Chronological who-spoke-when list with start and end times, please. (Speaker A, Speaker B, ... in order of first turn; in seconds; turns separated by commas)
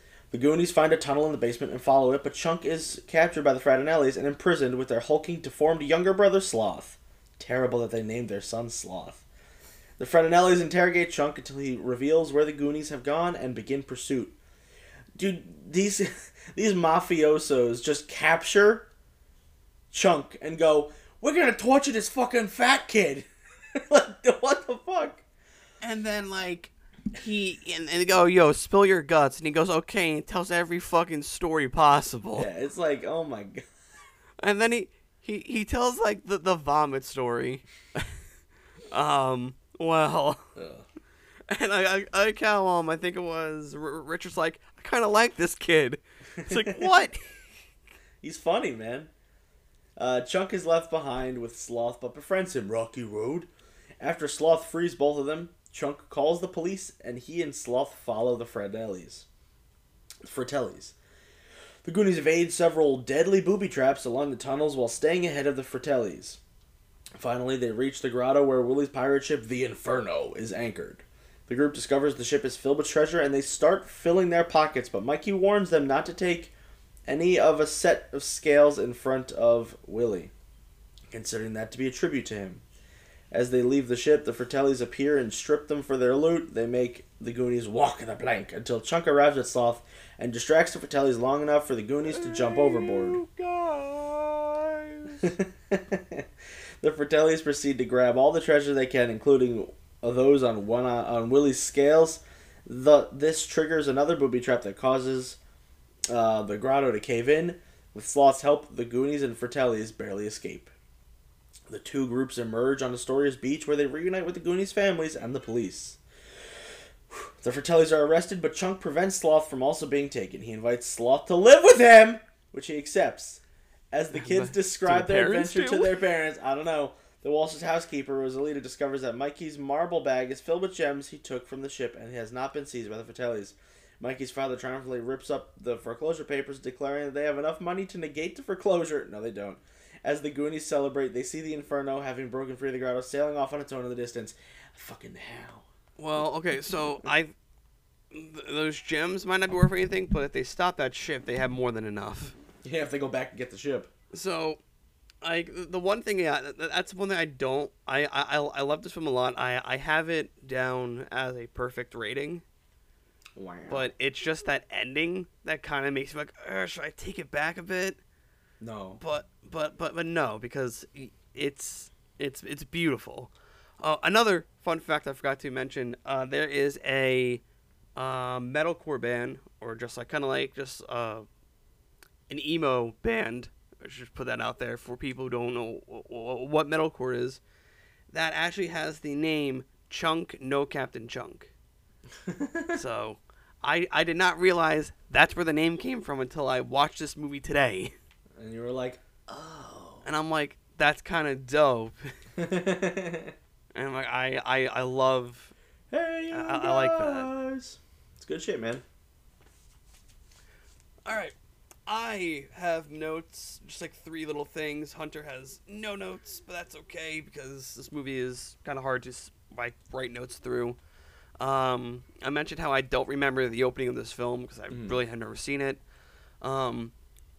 Speaker A: 0.3-9.2, Speaker A: 10.0-14.3, Speaker A: 15.2-18.9, Speaker A: 19.9-25.2, Speaker B: 25.8-32.5, Speaker A: 32.4-33.7, Speaker B: 34.4-38.1, Speaker B: 38.9-40.5, Speaker A: 40.5-40.9, Speaker B: 41.5-47.5, Speaker A: 46.4-46.9, Speaker A: 48.2-49.1, Speaker A: 50.0-53.5, Speaker A: 54.0-59.3, Speaker A: 60.2-61.0, Speaker A: 61.9-66.4, Speaker A: 67.2-76.5, Speaker A: 77.1-80.3, Speaker A: 81.1-82.6, Speaker A: 83.3-93.2, Speaker B: 92.1-95.3, Speaker A: 95.2-96.3, Speaker A: 96.8-105.4, Speaker A: 106.1-110.7, Speaker A: 111.7-116.0, Speaker A: 117.1-145.7, Speaker B: 124.1-126.0, Speaker B: 146.0-147.3, Speaker B: 148.1-152.3, Speaker A: 152.6-153.9, Speaker B: 154.1-154.6, Speaker B: 155.2-162.4, Speaker A: 163.4-163.9, Speaker B: 163.7-168.0, Speaker A: 168.6-169.0, Speaker B: 169.0-177.4, Speaker B: 178.0-181.3, Speaker B: 182.3-187.4, Speaker B: 188.1-191.5, Speaker A: 192.2-192.8, Speaker B: 192.7-197.9, Speaker A: 198.4-200.1, Speaker B: 200.1-202.2, Speaker A: 202.4-203.3, Speaker B: 203.8-205.5, Speaker A: 205.9-208.8, Speaker B: 206.3-207.3, Speaker B: 211.1-211.3, Speaker B: 211.9-220.8, Speaker B: 221.4-225.8, Speaker A: 224.7-225.0, Speaker B: 226.4-226.9